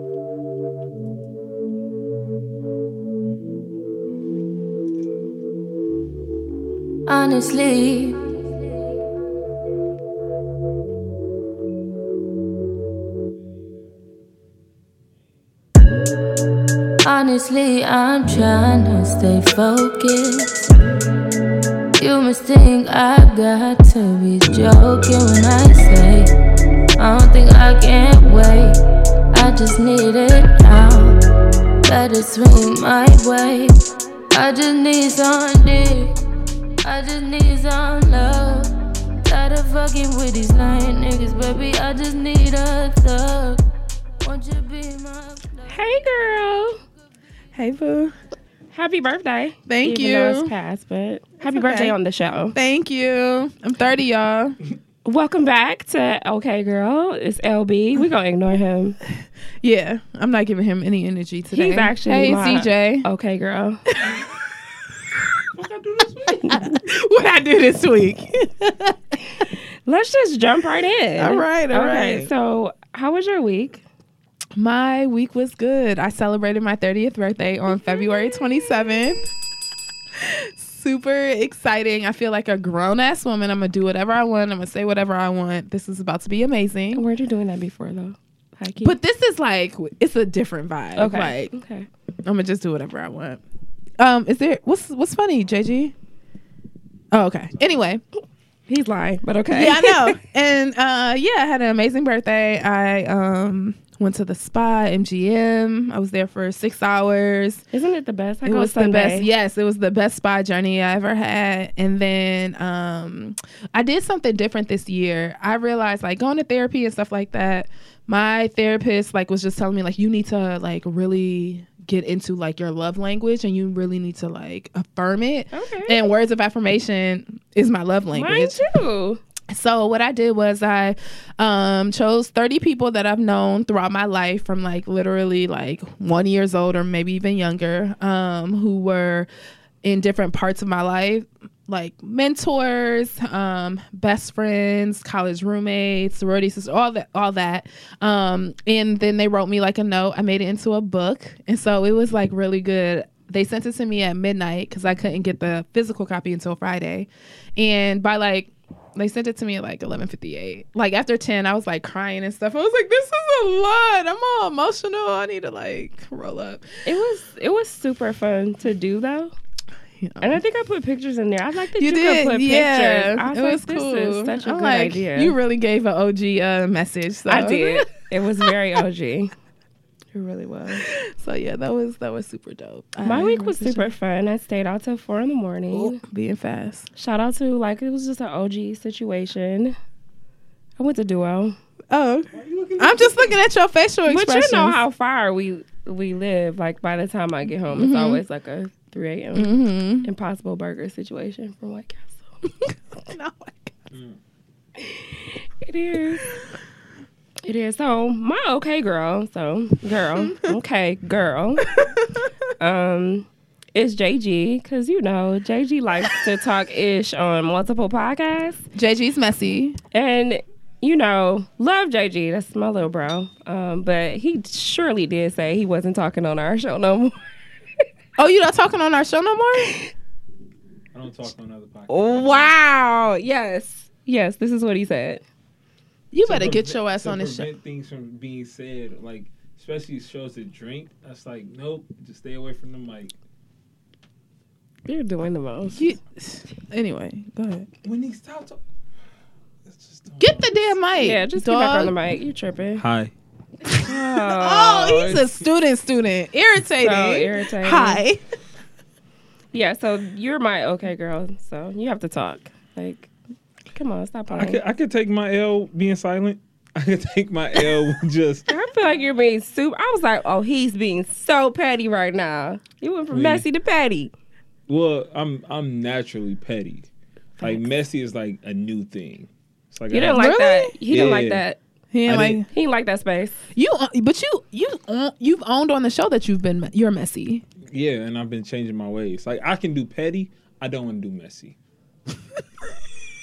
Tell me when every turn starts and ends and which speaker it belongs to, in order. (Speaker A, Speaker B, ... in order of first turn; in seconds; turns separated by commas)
Speaker A: 7.1-8.2, Speaker A: 17.0-20.6, Speaker A: 22.0-26.3, Speaker A: 27.0-28.8, Speaker A: 29.3-31.2, Speaker A: 31.8-36.2, Speaker A: 36.8-38.7, Speaker A: 39.2-43.6, Speaker A: 44.2-45.6, Speaker B: 45.7-46.8, Speaker C: 47.5-48.1, Speaker B: 48.7-52.5, Speaker C: 49.7-50.5, Speaker C: 51.4-52.0, Speaker C: 52.5-54.6, Speaker B: 55.0-59.0, Speaker C: 59.6-63.0, Speaker B: 61.5-63.9, Speaker C: 64.0-64.3, Speaker D: 65.5-66.6, Speaker C: 66.5-69.2, Speaker B: 69.9-73.8, Speaker C: 71.2-72.3, Speaker C: 74.6-79.2, Speaker C: 80.2-87.0, Speaker B: 86.9-89.0, Speaker C: 88.8-91.5, Speaker B: 91.0-91.9, Speaker C: 92.2-93.4, Speaker C: 94.0-95.9, Speaker C: 97.1-98.0, Speaker B: 98.7-100.2, Speaker C: 99.5-107.6, Speaker B: 107.7-109.3, Speaker C: 108.5-128.6, Speaker B: 125.5-126.0, Speaker B: 128.1-129.2, Speaker C: 129.5-139.3, Speaker C: 139.8-166.8, Speaker B: 166.8-169.3, Speaker C: 170.0-170.4, Speaker B: 170.2-175.3, Speaker C: 171.8-177.9, Speaker B: 177.3-179.3, Speaker B: 180.2-180.8, Speaker C: 180.6-183.9, Speaker B: 183.0-186.0, Speaker C: 185.7-186.9, Speaker B: 187.0-189.8, Speaker B: 190.8-191.6, Speaker C: 191.9-194.8, Speaker D: 192.3-193.4, Speaker B: 194.1-202.3, Speaker C: 197.7-198.2, Speaker C: 199.3-200.1, Speaker C: 202.6-203.7, Speaker D: 203.9-204.2, Speaker B: 204.8-206.3, Speaker B: 207.4-211.8, Speaker C: 210.2-210.5, Speaker C: 211.8-212.1, Speaker B: 212.6-218.6, Speaker C: 218.8-219.8, Speaker B: 219.9-227.2, Speaker C: 228.2-229.8, Speaker D: 230.9-232.5, Speaker B: 231.9-235.2, Speaker C: 236.1-237.5, Speaker D: 236.2-243.1, Speaker B: 244.9-245.9, Speaker C: 245.8-247.7, Speaker D: 247.8-248.6, Speaker D: 249.7-250.7, Speaker C: 250.2-251.9, Speaker B: 251.0-252.8, Speaker D: 252.8-253.1, Speaker C: 253.7-258.2, Speaker B: 253.8-255.3, Speaker B: 256.8-258.0, Speaker B: 259.5-263.1, Speaker B: 263.7-264.6, Speaker D: 264.3-268.5, Speaker B: 268.5-274.1, Speaker D: 273.1-273.4, Speaker D: 274.7-276.9, Speaker D: 277.4-280.3, Speaker B: 279.9-281.6, Speaker C: 280.1-280.8, Speaker D: 280.9-281.4, Speaker C: 281.9-282.5, Speaker D: 282.1-282.4, Speaker B: 282.5-283.4, Speaker C: 283.6-287.4, Speaker D: 287.7-291.6